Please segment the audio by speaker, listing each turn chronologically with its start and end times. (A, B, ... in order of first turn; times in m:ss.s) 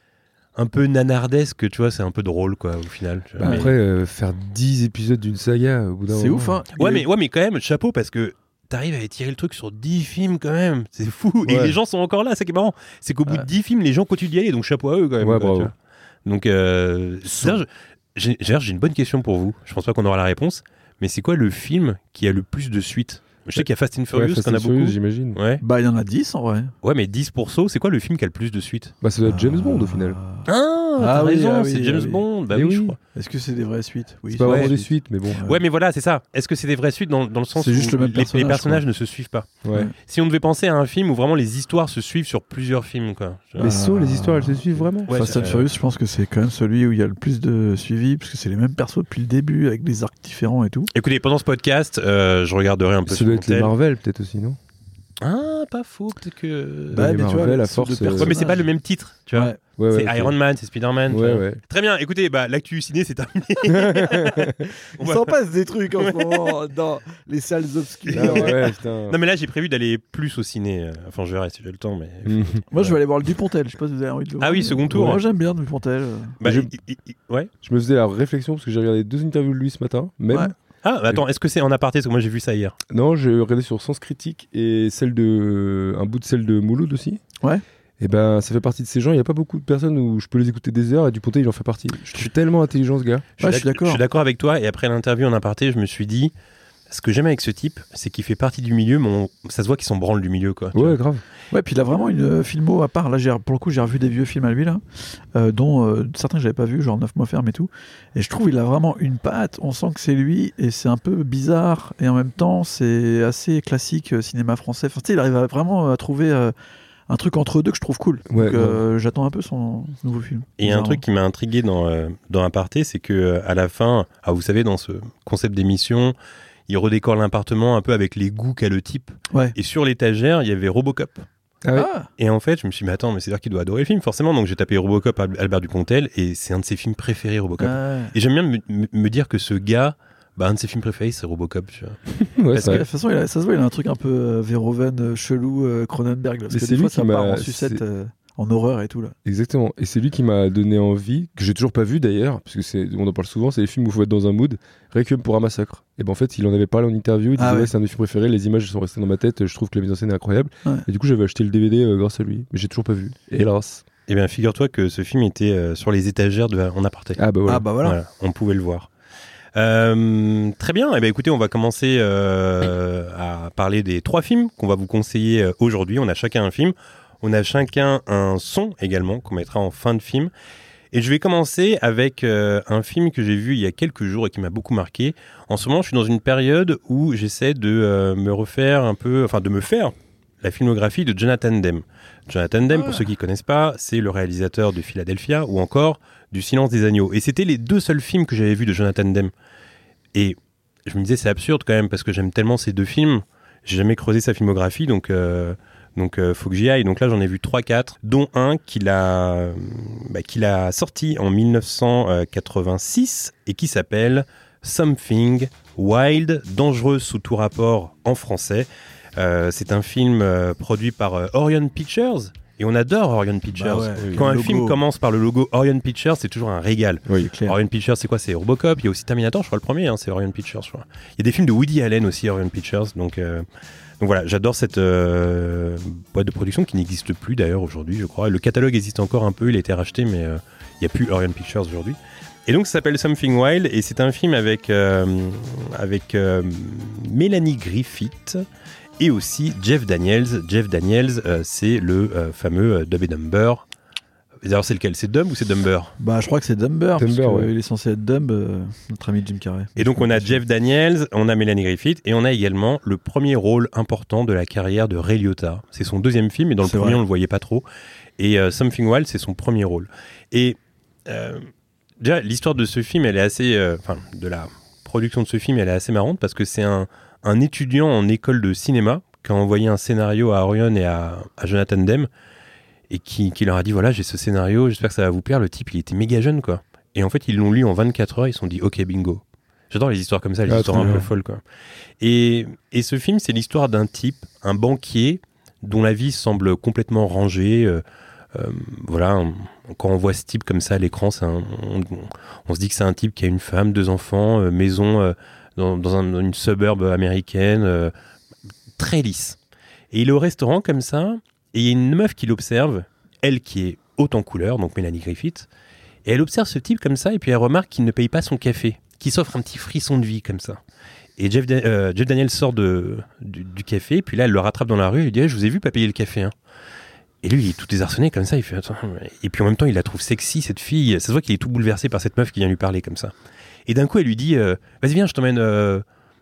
0:00.5-0:03.7 A
0:03.4-0:06.6 B
0:03.4-0:03.7 C
0:06.1-0:07.0 C
0:06.8-0:15.7 A
0:11.4-0:11.8 B
0:15.2-0:15.7 B
0:16.2-0:25.6 A
0:24.1-0:25.4 B
0:25.6-0:26.7 C
0:26.8-0:28.9 A
0:29.0-0:30.2 B
0:29.2-0:30.5 C
0:30.5-0:33.0 A
0:31.0-0:32.2 C
0:32.5-0:33.0 B
0:33.1-0:35.6 C
0:34.3-0:35.4 B
0:34.4-0:34.7 A
0:35.4-0:43.7 A
0:37.5-0:38.8 C
0:39.6-0:39.9 B
0:43.6-0:50.9 C
0:43.6-0:45.7 B
0:45.1-0:45.6 A
0:50.9-0:53.7 A
0:53.0-0:54.6 B
0:55.2-0:57.1 A
0:56.9-0:58.4 B
0:56.9-0:58.6 C
0:58.1-1:04.4 A
0:59.3-0:59.6 C
0:59.8-1:00.3 B
1:01.1-1:01.6 B
1:03.7-1:04.7 B
1:04.4-1:08.6 C
1:05.0-1:05.4 A
1:06.0-1:06.6 A
1:08.1-1:12.9 A
1:08.1-1:09.2 B
1:12.2-1:12.8 B
1:12.7-1:16.4 C
1:14.4-1:15.2 A
1:14.9-1:15.2 B
1:16.4-1:17.5 A
1:16.4-1:16.7 B
1:17.6-1:20.5 B
1:20.8-1:22.8 A
1:22.9-1:27.2 B
1:28.0-1:33.3 B
1:33.4-1:34.0 C
1:33.4-1:36.3 A
1:36.9-1:41.0 A
1:40.7-1:41.2 B
1:41.5-1:44.8 C
1:45.3-1:56.5 C
1:57.1-2:01.0 C
1:58.3-1:58.8 B
2:00.6-2:06.1 A
2:06.7-2:11.2 A
2:11.6-2:11.9 B
2:11.8-2:12.1 C
2:12.2-2:22.0 A
2:17.6-2:18.1 C
2:22.2-2:22.8 B
2:22.5-2:22.8 A
2:22.6-2:29.1 C
2:26.5-2:27.8 B
2:29.2-2:43.8 B
2:37.4-2:37.7 C
2:44.1-2:47.2 A
2:47.2-2:47.7 B
2:47.5-2:48.0 C
2:47.8-2:48.9 A
2:49.5-3:00.3 A
3:00.9-3:19.3 A
3:12.7-3:13.0 C
3:20.1-3:53.4 A
3:43.5-3:44.8 C
3:47.2-3:47.6 C
3:54.0-4:08.4 A
4:09.0-4:13.6 A
4:14.4-4:15.9 A
4:16.0-4:20.4 C
4:17.0-4:17.5 B
4:19.8-4:27.6 A
4:26.6-4:27.0 C
4:28.2-4:31.4 A
4:32.0-4:42.1 A
4:42.9-4:51.4 A
4:50.5-4:51.1 B
4:52.0-4:57.8 A
4:58.3-5:07.9 A
5:08.8-5:09.4 A
5:09.9-5:15.5 A
5:16.0-5:20.6 A
5:21.2-5:26.3 A
5:27.2-5:33.1 A
5:33.7-5:35.8 A